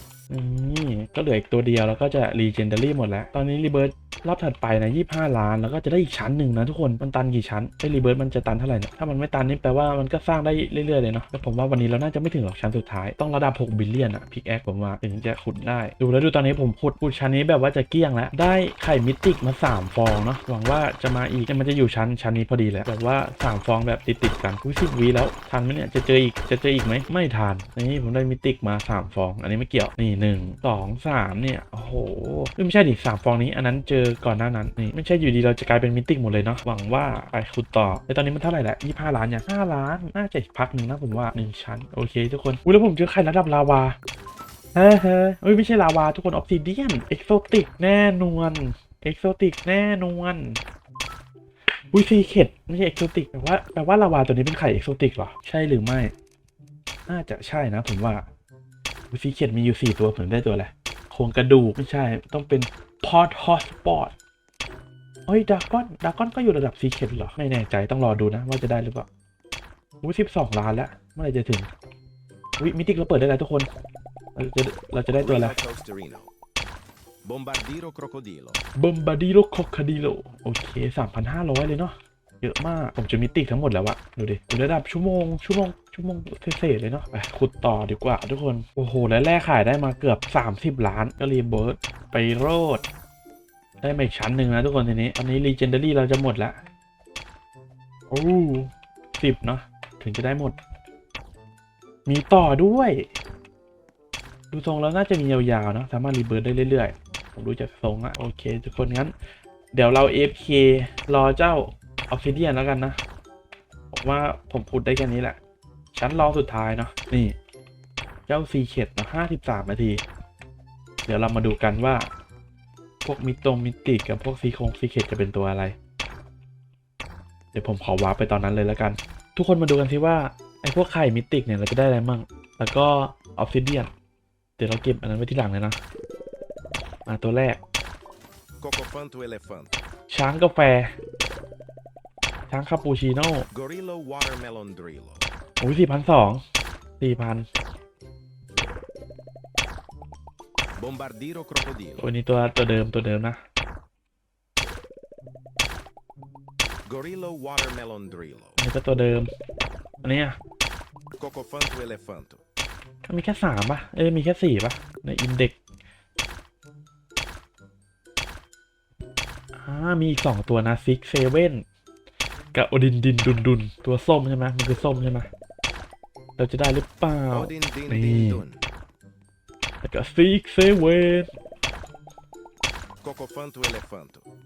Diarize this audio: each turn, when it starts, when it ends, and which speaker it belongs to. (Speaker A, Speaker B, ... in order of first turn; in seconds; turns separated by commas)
Speaker A: 0.3-44.0, Speaker A: 44.7-50.6, Speaker A: 51.9-56.1, Speaker A: 57.1-58.2, Speaker A: 59.1-64.1, Speaker A: 65.3-69.1, Speaker A: 70.0-71.7, Speaker A: 72.6-73.7, Speaker A: 74.3-75.6, Speaker B: 75.2-76.3, Speaker B: 77.2-78.6, Speaker A: 78.8-92.8, Speaker A: 93.8-96.6, Speaker A: 98.1-100.5, Speaker A: 102.0-103.1, Speaker A: 104.5-109.1, Speaker A: 109.7-113.0, Speaker A: 113.9-115.4, Speaker A: 115.9-117.3, Speaker A: 118.3-120.0, Speaker A: 121.0-122.1, Speaker A: 123.0-125.7, Speaker A: 127.5-133.9, Speaker A: 134.6-135.8, Speaker A: 137.1-137.6, Speaker B: 138.6-139.8, Speaker A: 140.1-140.9, Speaker A: 142.5-143.4, Speaker B: 143.5-145.3, Speaker A: 145.6-146.4, Speaker A: 147.0-147.4, Speaker B: 150.8-152.1, Speaker A: 152.0-153.4, Speaker B: 156.9-158.6, Speaker A: 158.6-159.3, Speaker A: 160.0-160.4, Speaker B: 161.2-162.4, Speaker A: 163.0-165.6, Speaker A: 169.6-171.6, Speaker A: 172.5-175.3, Speaker A: 176.4-178.4, Speaker B: 177.3-178.6, Speaker A: 179.8-181.3, Speaker B: 183.0-184.2